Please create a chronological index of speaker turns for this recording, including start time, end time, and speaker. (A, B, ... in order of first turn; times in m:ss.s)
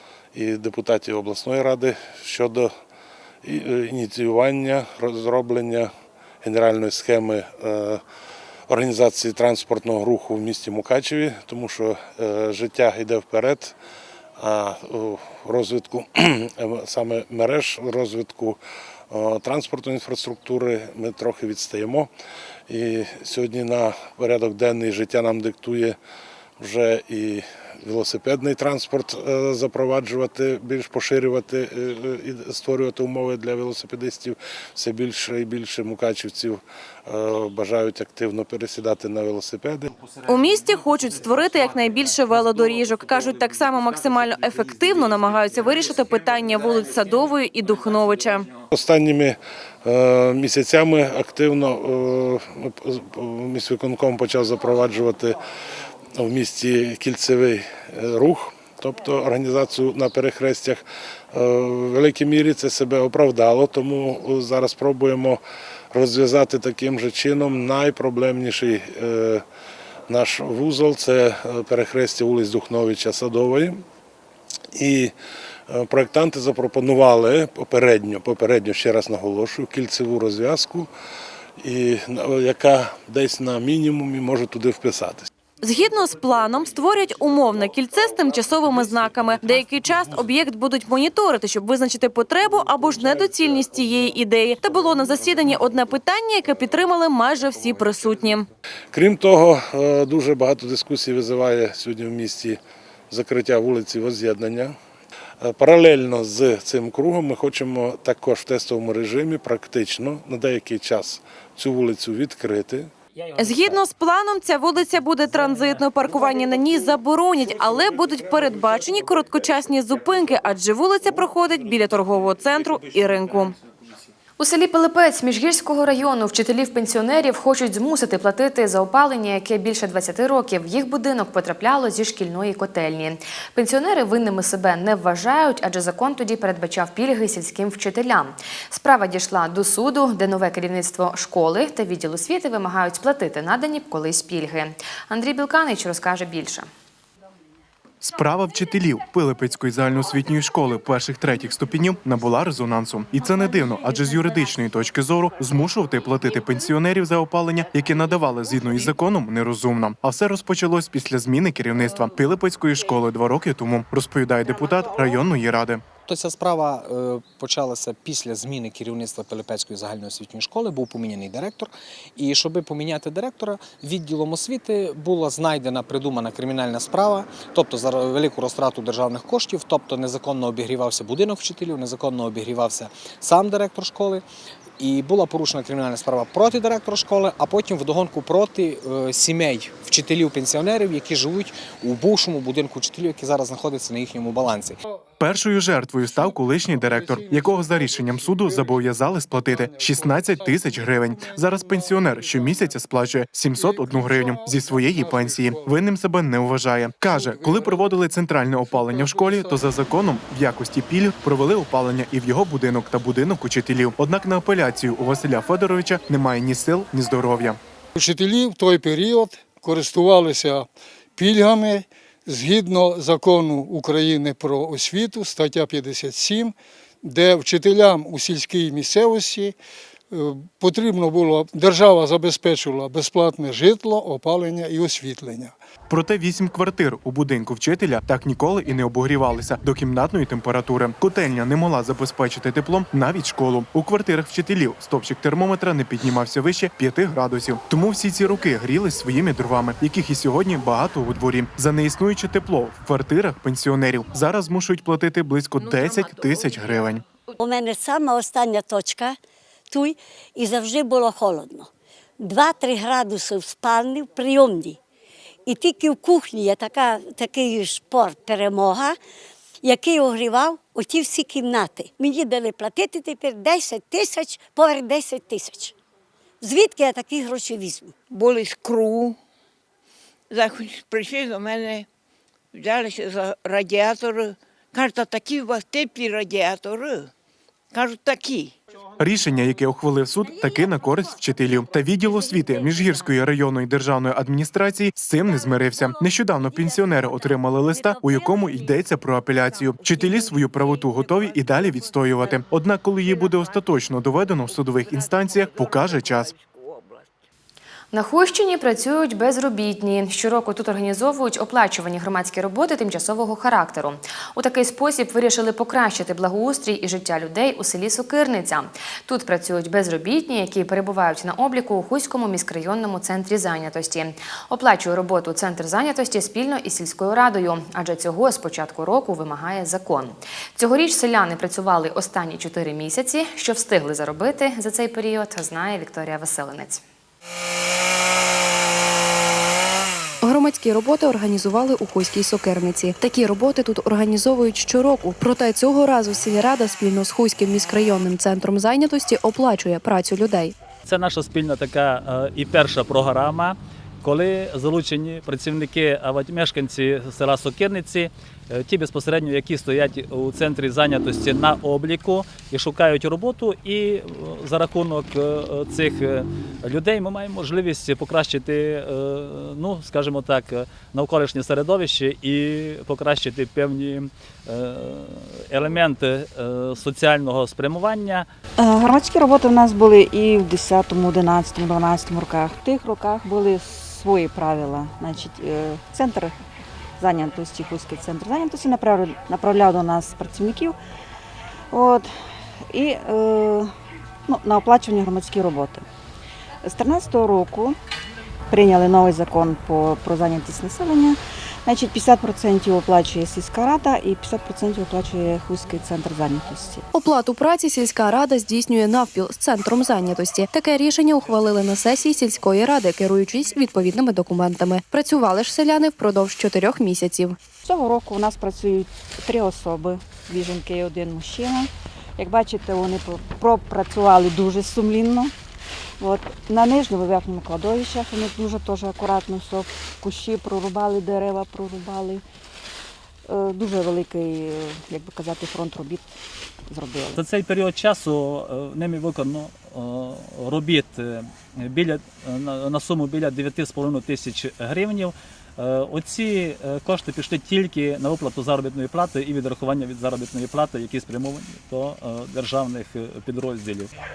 0:00.3-0:02.7 A
0:03.4-0:05.9 A
0:06.4-0:08.0 A
0:08.7-0:13.7 A
0:14.4-0:18.6 A
0:19.1-0:22.1 A
0:22.7-0:26.0 A
0:26.6-0:39.9 A
0:40.2-0:48.5 B
0:48.7-0:55.4 A
0:56.2-1:05.4 A
1:05.9-1:09.4 A
1:10.1-1:13.8 A
1:14.7-1:15.1 A
1:15.7-1:20.9 A
1:21.6-1:25.3 A
1:25.6-1:38.5 B
1:38.9-1:42.6 A
1:43.1-1:44.7 A
1:45.4-1:52.9 A
1:53.3-2:03.6 B
2:04.4-2:26.7 C
2:28.0-2:45.8 D
2:46.0-3:04.2 E
3:04.8-3:14.8 E
3:15.2-3:37.6 D
3:17.3-3:17.7 F
3:19.7-3:20.2 F
3:23.6-3:25.5 F
3:27.1-3:27.7 F
3:29.0-3:29.4 F
3:37.9-3:49.6 F
3:50.1-3:55.5 F
3:55.9-4:17.0 D
4:17.4-4:19.2 G
4:19.7-4:21.7 G
4:22.2-4:24.8 G
4:25.4-4:29.0 G
4:29.6-4:35.7 G
4:36.4-4:37.9 G
4:38.1-4:39.2 H
4:40.3-4:41.8 H
4:42.5-4:47.1 H
4:47.7-4:48.6 H
4:49.0-5:06.3 D
5:06.4-5:07.0 H
5:07.9-5:36.8 C
5:40.2-5:50.5 I
5:50.8-6:18.3 J
6:18.6-6:26.3 K
6:27.0-6:30.8 K
6:31.7-6:32.1 K
6:32.7-6:33.7 K
6:34.3-6:35.8 K
6:36.6-6:37.8 K
6:38.5-6:46.9 K
6:46.9-6:57.4 I
6:57.6-7:05.3 K
7:06.0-7:12.2 K
7:13.3-7:16.1 K
7:16.7-7:17.2 K
7:17.2-7:33.9 J